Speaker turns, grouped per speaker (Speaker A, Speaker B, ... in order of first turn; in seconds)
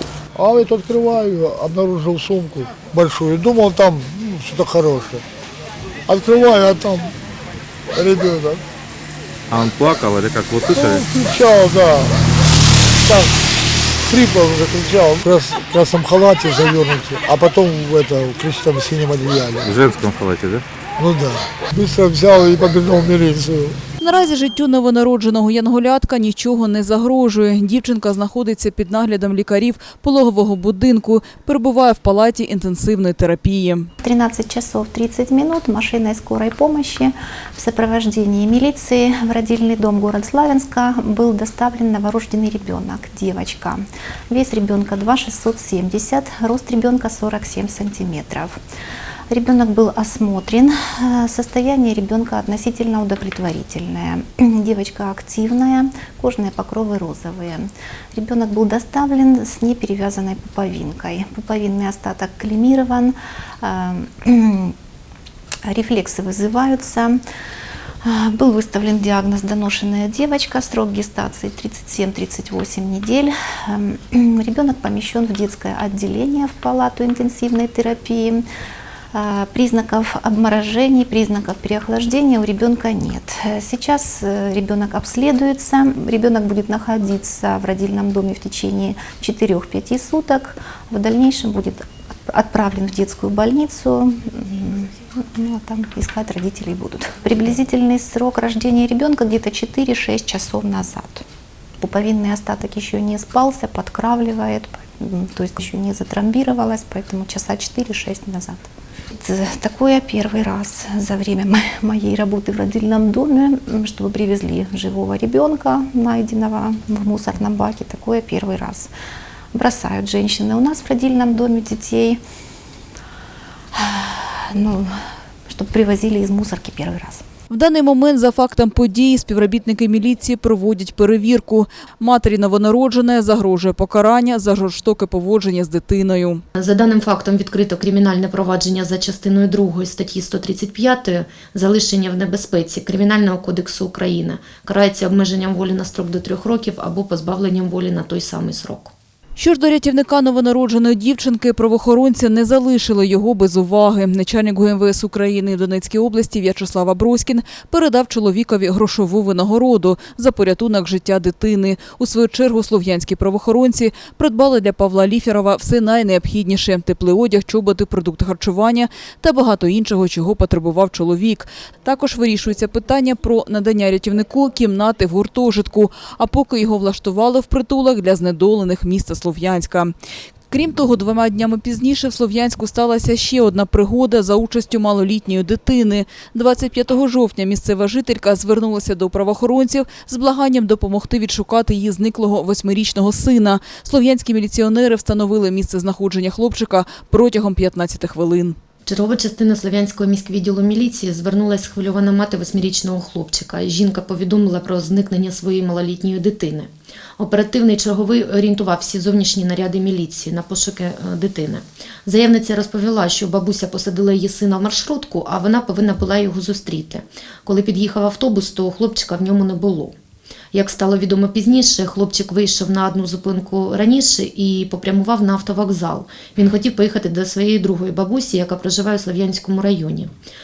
Speaker A: 0.3-5.2, 6.1-7.1, 7.9-8.6, 10.7-12.2, 13.0-13.4, 14.1-19.7, 21.0-23.8
Speaker B: 9.5-11.0, 19.6-20.6
Speaker C: 24.0-33.9, 127.5-136.4, 149.4-179.9, 180.5-198.6
Speaker D: 34.0-48.6, 49.3-64.7, 65.6-67.2, 68.0-78.4, 79.1-101.2, 101.8-108.6, 109.2-118.9, 119.5-122.2, 123.7-124.9, 125.5-127.2
Speaker E: 136.6-148.9, 198.8-219.9, 220.5-230.1